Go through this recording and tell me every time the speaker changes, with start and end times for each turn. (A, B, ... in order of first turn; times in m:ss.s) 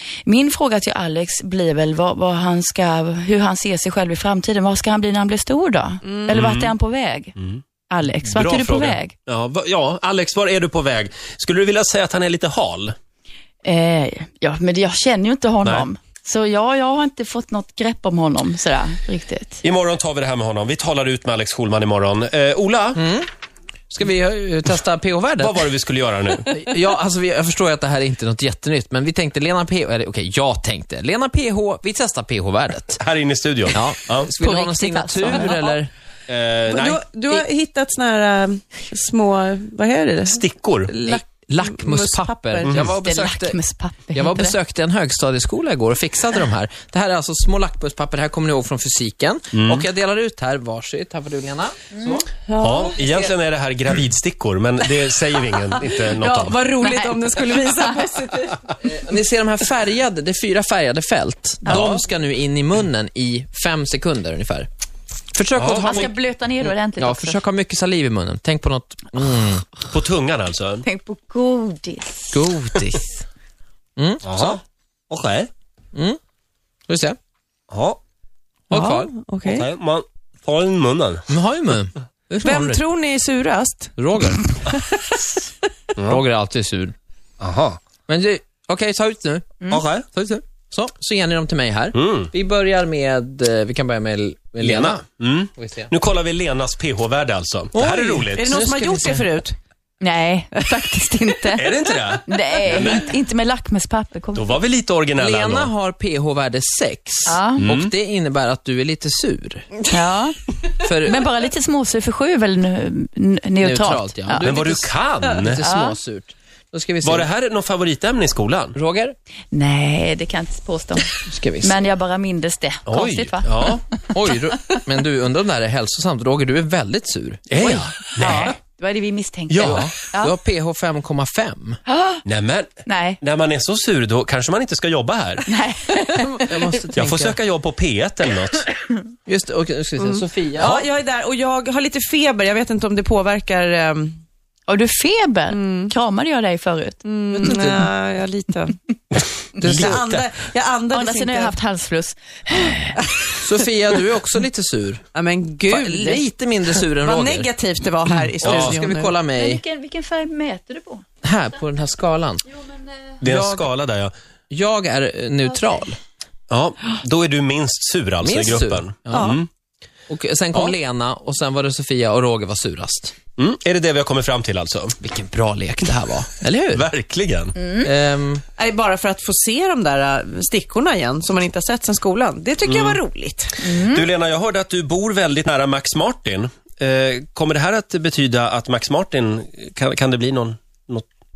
0:00.3-0:07.3 A
0:06.0-0:06.3 B
0:06.3-0:06.8 C
0:07.4-0:07.6 C
0:07.9-0:09.1 A
0:08.2-0:13.0 C
0:13.6-0:19.6 A
0:15.6-0:15.9 C
0:19.6-0:23.0 C
0:23.0-0:23.3 D
0:23.9-0:25.6 D
0:25.4-0:26.6 C
0:26.5-0:33.0 D
0:33.0-0:34.3 C
0:33.7-0:35.9 D
0:34.4-0:35.6 A
0:36.3-0:37.0 C
0:36.7-0:42.8 B
0:40.3-0:40.9 C
0:41.0-0:43.6 D
0:42.7-0:42.9 C
0:43.0-0:44.6 A
0:44.1-0:52.3 D
0:49.5-0:49.8 C
0:52.5-0:52.9 B
0:52.6-0:56.6 C
0:52.8-0:53.3 D
0:55.5-0:58.7 B
0:56.8-0:57.2 A
0:58.8-1:04.7 D
1:01.6-1:02.0 A
1:01.7-1:02.0 C
1:05.3-1:09.7 D
1:05.6-1:06.1 C
1:05.6-1:07.4 A
1:09.9-1:10.8 C
1:10.8-1:12.4 A
1:12.3-1:13.2 D
1:14.0-1:14.6 D
1:14.2-1:15.5 C
1:16.9-1:17.2 D
1:17.7-1:18.0 C
1:18.7-1:19.1 D
1:18.7-1:19.7 B
1:19.4-1:21.3 C
1:21.3-1:22.8 D
1:22.4-1:24.0 B
1:24.0-1:24.6 D
1:26.1-1:26.9 D
1:27.4-1:27.8 C
1:28.1-1:35.0 D
1:29.7-1:30.1 C
1:31.9-1:32.3 C
1:34.6-1:38.6 C
1:35.6-1:35.9 D
1:37.8-1:39.6 B
1:37.8-1:39.3 D
1:40.0-1:44.6 A
1:41.6-1:43.1 C
1:44.4-1:45.7 C
1:45.2-1:49.7 D
1:47.3-1:47.6 A
1:47.6-1:47.9 C
1:49.9-1:50.4 A
1:50.8-1:51.3 D
1:51.1-1:54.5 A
1:53.6-1:57.3 D
1:54.4-1:55.6 C
1:55.6-1:56.0 A
1:57.0-1:58.8 C
1:58.8-1:59.2 D
1:59.5-2:01.1 A
2:01.2-2:01.8 D
2:01.6-2:03.8 A
2:02.9-2:03.8 C
2:04.1-2:08.5 D
2:07.5-2:08.6 C
2:08.2-2:10.3 A
2:09.5-2:09.9 C
2:09.6-2:11.8 D
2:11.9-2:12.2 A
2:12.3-2:15.5 C
2:12.8-2:13.2 A
2:15.5-2:16.7 A
2:16.4-2:17.4 D
2:16.9-2:18.7 C
2:19.3-2:20.8 D
2:20.0-2:24.2 B
2:24.7-2:27.7 A
2:25.5-2:25.9 B
2:27.0-2:28.8 B
2:27.5-2:27.8 D
2:29.6-2:30.2 C
2:29.6-2:30.0 D
2:29.6-2:31.6 B
2:30.9-2:33.4 A
2:33.4-2:35.0 D
2:35.2-2:36.2 B
2:35.7-2:37.5 D
2:37.0-2:39.1 B
2:38.4-2:39.6 D
2:38.4-2:38.8 C
2:39.3-2:41.0 A
2:41.2-2:42.5 D
2:43.2-2:43.7 D
2:43.2-2:44.1 C
2:44.5-2:46.0 D
2:46.5-2:49.5 C
2:48.2-2:49.4 D
2:49.1-2:49.4 B
2:50.1-2:53.2 D
2:53.4-2:55.0 C
2:55.0-2:56.9 D
2:56.7-2:57.6 C
2:57.6-2:57.9 A
2:57.8-2:58.4 D
2:58.6-3:03.6 B
3:02.6-3:03.0 C
3:03.6-3:04.0 A
3:03.7-3:11.1 C